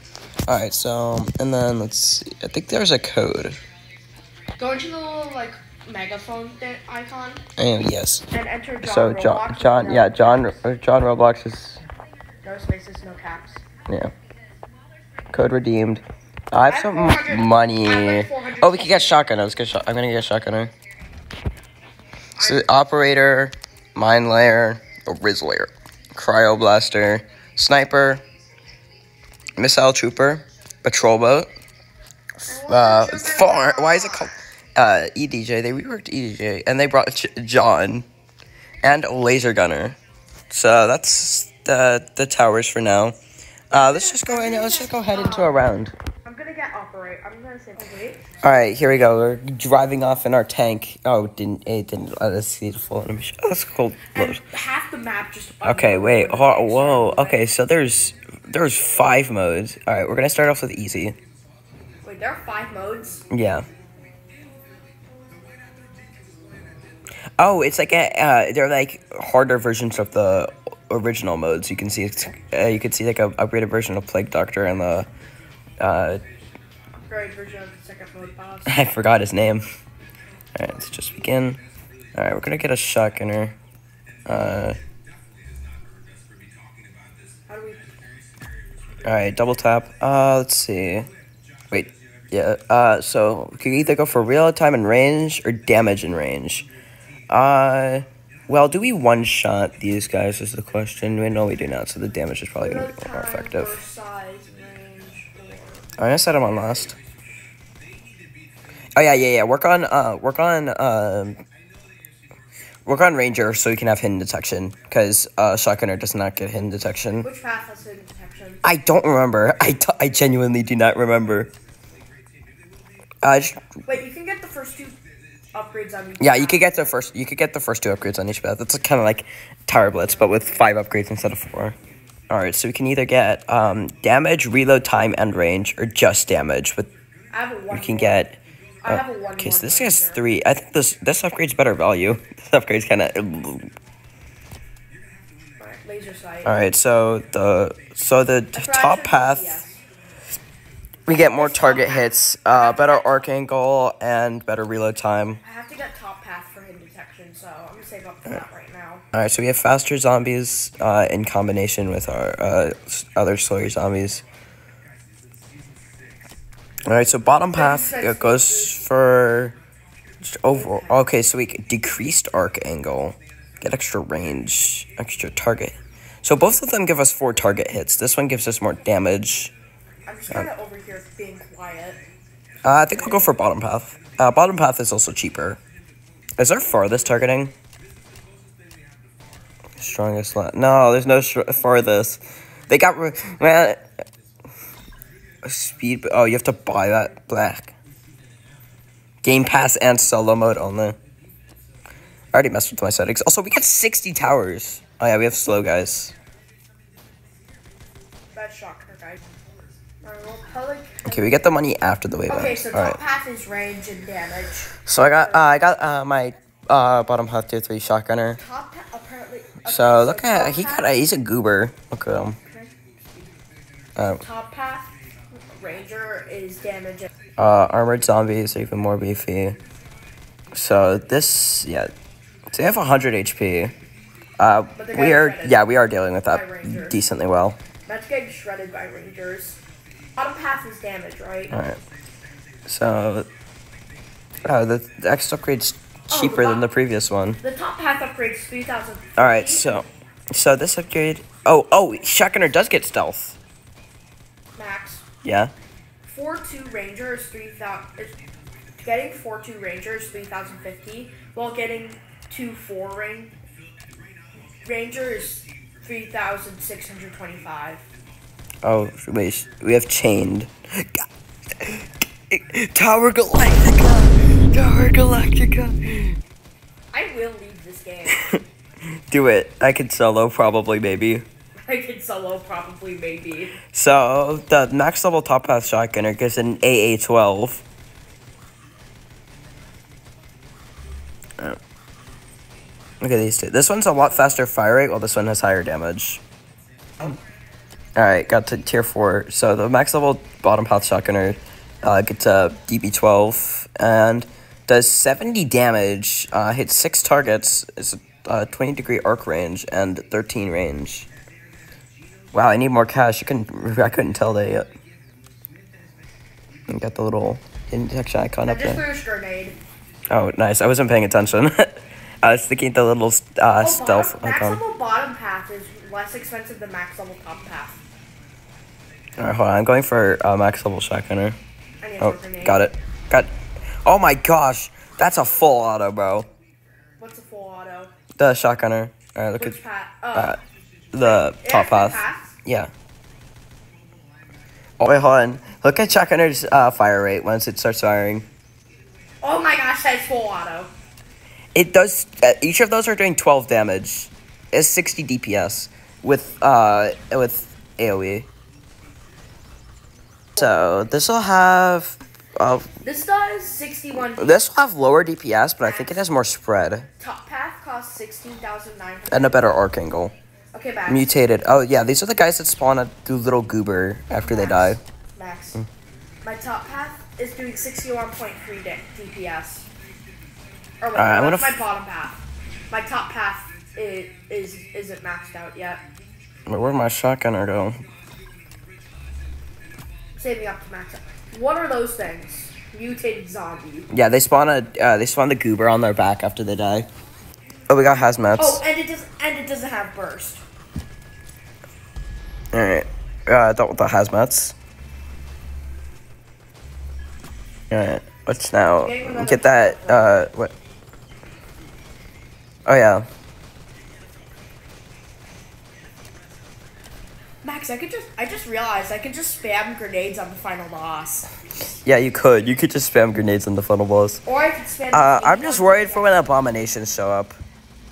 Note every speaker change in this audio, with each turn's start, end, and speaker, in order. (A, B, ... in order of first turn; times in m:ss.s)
0:00.5-0:03.6 A
0:04.6-0:07.4 B
0:07.6-0:08.3 A
0:08.3-0:10.6 B
0:08.8-0:11.8 A
0:12.4-0:13.6 B
0:15.3-0:20.7 A
0:16.7-0:19.2 B
0:22.4-0:22.8 B
0:22.4-0:28.2 A
0:29.6-0:31.5 A
0:32.4-0:38.1 A
0:32.5-0:34.3 B
0:38.8-0:40.0 A
0:40.5-0:43.2 A
0:43.7-0:46.0 A
0:43.7-0:45.6 B
0:46.2-0:48.3 B
0:48.4-0:54.4 A
0:54.1-0:57.5 B
0:55.6-1:01.2 A
1:02.0-1:03.3 B
1:03.3-1:03.7 A
1:07.4-1:15.1 A
1:15.8-1:16.2 A
1:17.1-1:18.8 B
1:18.7-1:19.6 A
1:20.6-1:21.6 A
1:22.2-1:23.6 A
1:24.3-1:24.8 A
1:27.5-1:27.8 B
1:29.0-1:31.1 A
1:31.7-1:36.7 A
1:37.3-1:43.8 A
1:42.6-1:45.9 B
1:46.0-1:47.0 A
1:49.0-1:51.4 A
1:52.9-1:57.3 A
1:57.2-1:58.6 B
1:58.6-2:01.5 A
2:03.2-2:03.7 A
2:03.9-2:05.0 B
2:05.5-2:06.9 B
2:06.2-2:11.8 A
2:09.9-2:10.7 B
2:12.3-2:16.9 A
2:17.3-2:18.2 B
2:17.7-2:23.7 A
2:18.8-2:20.2 B
2:25.6-2:26.6 B
2:26.4-2:29.6 A
2:28.6-2:29.8 B
2:31.1-2:35.4 A
2:31.1-2:33.3 B
2:35.4-2:39.1 B
2:39.1-2:44.2 A
2:46.9-2:49.6 A
2:47.5-2:48.8 B
2:50.2-2:59.5 A
2:50.5-2:51.0 B
3:00.1-3:02.0 B
3:02.6-3:05.6 A
3:06.4-3:07.5 A
3:09.8-3:13.8 A
3:15.4-3:17.8 A
3:19.2-3:21.0 A
3:22.3-3:26.1 A
3:28.3-3:29.2 B
3:30.0-3:31.4 B
3:31.0-3:33.0 A
3:32.3-3:35.5 B
3:34.8-3:38.4 A
3:38.4-3:41.0 B
3:39.6-3:42.4 A
3:42.2-3:42.7 B
3:44.0-3:44.2 A
3:44.1-3:47.1 B
3:47.4-3:49.6 A
3:50.5-3:51.9 A
3:52.5-3:53.8 A
3:54.4-3:57.6 A
3:54.7-3:55.6 B
3:56.3-3:57.0 B
3:57.9-3:59.6 B
4:00.2-4:01.6 B
4:01.5-4:01.8 A
4:02.7-4:03.3 A
4:04.4-4:07.4 A
4:06.1-4:06.7 B
4:07.4-4:09.8 B
4:09.2-4:13.4 A
4:14.6-4:15.0 B
4:15.2-4:15.5 A
4:16.0-4:18.2 B
4:18.8-4:23.3 B
4:24.6-4:27.9 B
4:28.6-4:31.1 A
4:31.6-4:36.2 A
4:36.9-4:38.2 B
4:38.1-4:38.4 A
4:39.1-4:41.3 A
4:41.7-4:43.6 B
4:43.7-4:47.6 A
4:53.0-4:56.2 A
4:58.0-5:11.1 A
5:12.3-5:14.7 A
5:16.7-5:18.8 A
5:18.4-5:19.6 B
5:20.1-5:24.6 A
5:23.6-5:27.8 B
5:29.2-5:31.4 A
5:31.8-5:32.6 B
5:32.0-5:36.3 A
5:37.0-5:37.9 B
5:38.2-5:39.6 A
5:39.4-5:40.4 B
5:40.1-5:40.4 A
5:40.9-5:42.7 A
5:41.0-5:42.4 B
5:44.8-5:48.3 A
5:49.2-5:50.7 B
5:51.6-5:58.3 A
6:00.4-6:02.7 A
6:02.8-6:04.4 B
6:04.2-6:06.9 A
6:05.6-6:06.0 B
6:07.0-6:09.6 B
6:09.1-6:10.1 A
6:10.5-6:11.2 B
6:10.9-6:14.8 A
6:14.2-6:15.6 B
6:16.2-6:19.7 B
6:20.8-6:25.8 B
6:21.0-6:21.6 A
6:26.5-6:27.8 A
6:30.2-6:33.9 B
6:33.9-6:36.9 A
6:37.7-6:38.6 A
6:38.4-6:40.4 B
6:42.5-6:44.6 A
6:47.7-6:50.5 A
6:48.6-6:50.3 B
6:52.7-6:53.1 A
6:57.4-7:01.3 B
7:01.8-7:04.2 A
7:04.2-7:06.1 B
7:04.9-7:07.4 A